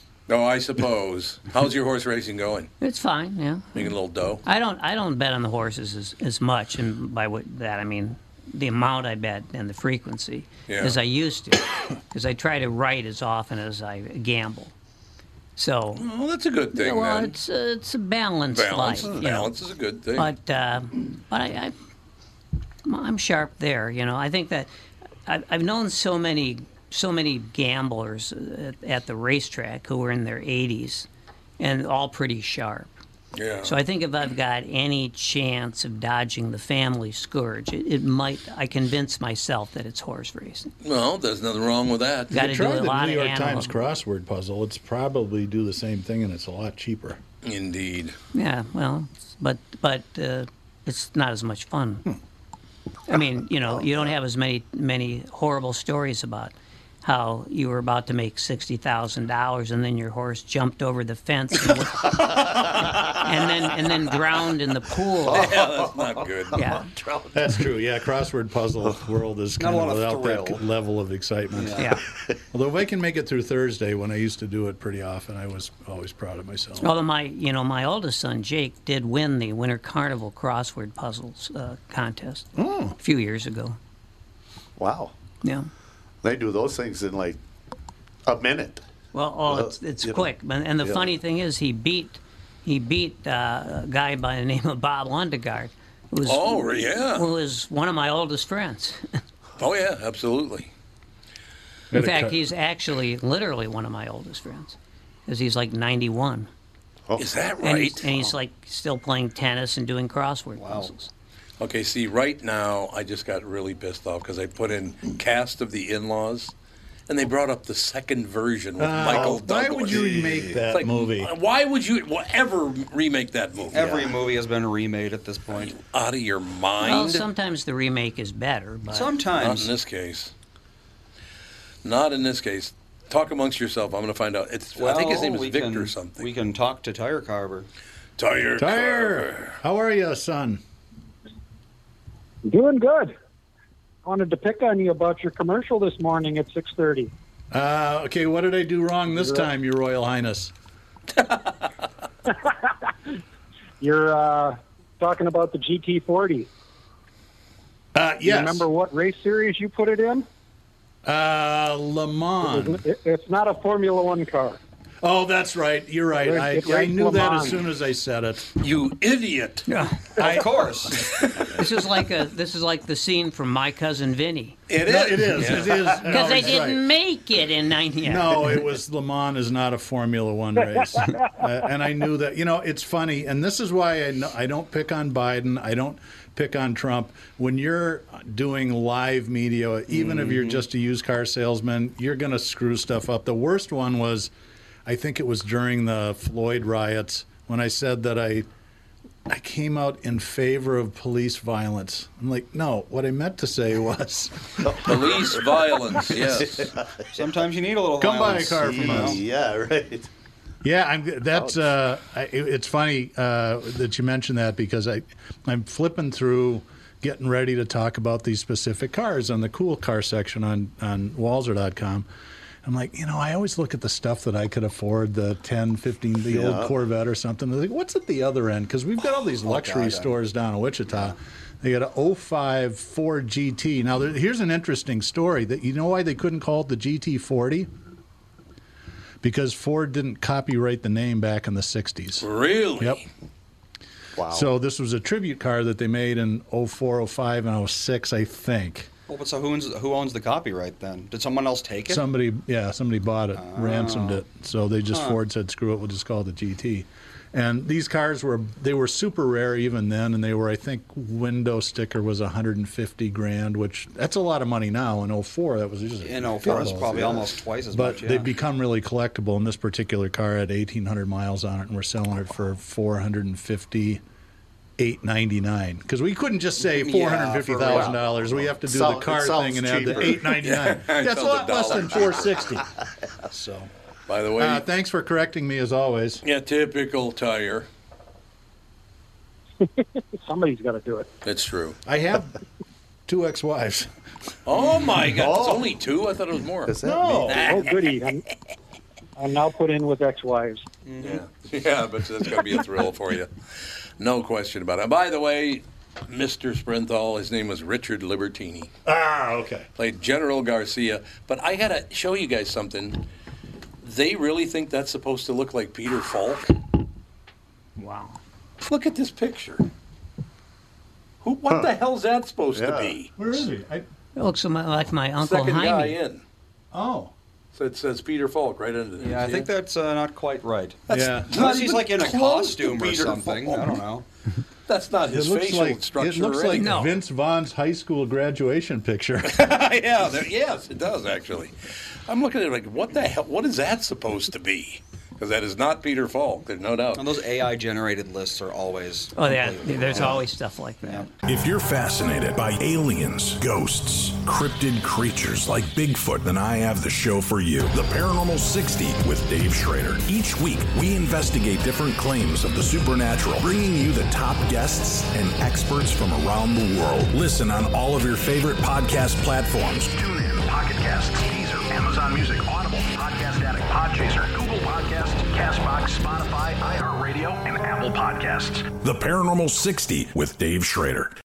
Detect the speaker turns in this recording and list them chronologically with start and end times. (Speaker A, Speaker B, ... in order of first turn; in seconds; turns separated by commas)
Speaker A: 0.3-2.7, Speaker B: 2.8-3.9, Speaker A: 3.7-4.4, Speaker B: 4.4-14.7, Speaker A: 10.7-11.0, Speaker B: 15.6-16.1, Speaker A: 15.9-17.4, Speaker B: 16.7-19.6, Speaker A: 18.5-20.3, Speaker B: 20.1-21.7, Speaker B: 22.8-24.7, Speaker B: 25.2-31.1, Speaker B: 31.6-32.9, Speaker A: 33.4-33.8, Speaker B: 33.6-40.7, Speaker A: 40.8-42.4, Speaker B: 42.3-43.7, Speaker C: 42.3-47.2, Speaker A: 47.4-48.1, Speaker B: 48.3-52.0, Speaker B: 53.1-62.6, Speaker B: 63.1-65.5, Speaker A: 65.3-66.6, Speaker D: 65.3-67.3, Speaker B: 66.5-66.9, Speaker C: 67.3-71.9, Speaker E: 69.6-70.6, Speaker E: 71.5-71.9, Speaker B: 71.8-72.0, Speaker C: 72.5-76.9, Speaker B: 76.8-83.8, Speaker C: 82.5-83.0, Speaker D: 84.8-85.1, Speaker B: 85.4-85.7, Speaker D: 86.2-87.4, Speaker D: 88.2-88.8, Speaker B: 89.1-99.2, Speaker D: 89.5-90.3, Speaker A: 96.2-97.3, Speaker A: 99.6-100.7, Speaker C: 101.9-102.4, Speaker B: 101.9-104.8, Speaker B: 105.3-106.5, Speaker A: 107.2-108.3, Speaker B: 107.6-111.1, Speaker E: 110.6-110.9, Speaker A: 111.6-116.5, Speaker A: 117.1-120.1, Speaker C: 118.8-121.3, Speaker D: 119.9-120.6, Speaker A: 120.7-124.1, Speaker E: 123.7-125.7, Speaker A: 125.5-127.2, Speaker B: 126.8-129.2, Speaker E: 128.9-129.7, Speaker A: 129.3-130.3, Speaker A: 131.8-136.3, Speaker E: 134.8-137.7, Speaker A: 138.2-139.6, Speaker C: 138.6-140.6, Speaker F: 142.4-143.1, Speaker F: 144.0-147.1, Speaker C: 147.5-150.5, Speaker F: 149.1-149.5, Speaker F: 153.8-156.5, Speaker C: 157.9-158.7, Speaker F: 158.2-160.2, Speaker C: 161.0-162.8, Speaker F: 162.4-164.6, Speaker C: 165.0-168.5, Speaker F: 166.2-167.7, Speaker A: 168.6-169.7, Speaker B: 169.7-170.2, Speaker C: 170.2-170.7, Speaker E: 170.2-171.0, Speaker B: 171.5-174.6, Speaker A: 174.7-176.2, Speaker C: 174.8-176.8, Speaker B: 176.0-178.6, Speaker C: 178.0-194.3, Speaker E: 189.9-190.6, Speaker C: 194.8-198.5, Speaker C: 199.3-204.9, Speaker D: 204.6-205.0, Speaker A: 204.8-206.7, Speaker D: 206.2-206.7, Speaker E: 207.1-209.2, Speaker C: 208.0-209.2, Speaker D: 208.6-210.1, Speaker C: 210.6-222.1, Speaker C: 222.6-237.7, Speaker D: 226.3-226.7, Speaker E: 229.4-230.1, Speaker C: 239.2-242.3, Speaker A: 242.2-243.0, Speaker D: 244.2-244.5, Speaker C: 244.3-248.9, Speaker E: 249.1-252.0, Speaker C: 251.9-274.0, Speaker E: 253.3-254.2, Speaker E: 254.9-255.2, Speaker E: 266.0-268.3, Speaker C: 274.8-282.6, Speaker E: 276.6-278.0, Speaker D: 277.7-280.4, Speaker A: 280.4-282.4, Speaker C: 283.3-283.7, Speaker A: 284.1-284.6, Speaker C: 284.4-286.2, Speaker A: 286.2-287.7, Speaker F: 289.6-291.1, Speaker A: 291.2-291.8, Speaker C: 291.9-292.4, Speaker C: 293.1-293.9, Speaker A: 294.4-296.7, Speaker D: 295.0-295.7, Speaker D: 296.7-297.6, Speaker C: 296.8-297.6, Speaker A: 297.3-298.1, Speaker F: 297.3-298.2, Speaker F: 299.2-300.6, Speaker E: 300.8-301.2, Speaker A: 301.0-303.3, Speaker A: 304.0-308.7, Speaker C: 308.8-309.7, Speaker A: 309.8-313.1, Speaker A: 313.8-316.5, Speaker B: 317.8-318.2, Speaker A: 318.6-319.6, Speaker A: 321.2-323.1, Speaker D: 322.5-322.9, Speaker C: 323.2-323.9, Speaker B: 324.2-326.0, Speaker A: 325.2-326.2, Speaker C: 326.7-327.1, Speaker A: 327.5-329.5, Speaker E: 329.0-334.0, Speaker A: 330.9-333.8, Speaker C: 330.9-331.4, Speaker A: 334.7-336.7, Speaker C: 335.1-339.4, Speaker B: 336.5-337.0, Speaker A: 339.2-341.5, Speaker A: 342.1-347.1, Speaker E: 346.9-350.3, Speaker B: 349.1-351.1, Speaker E: 350.8-351.1, Speaker G: 351.2-381.1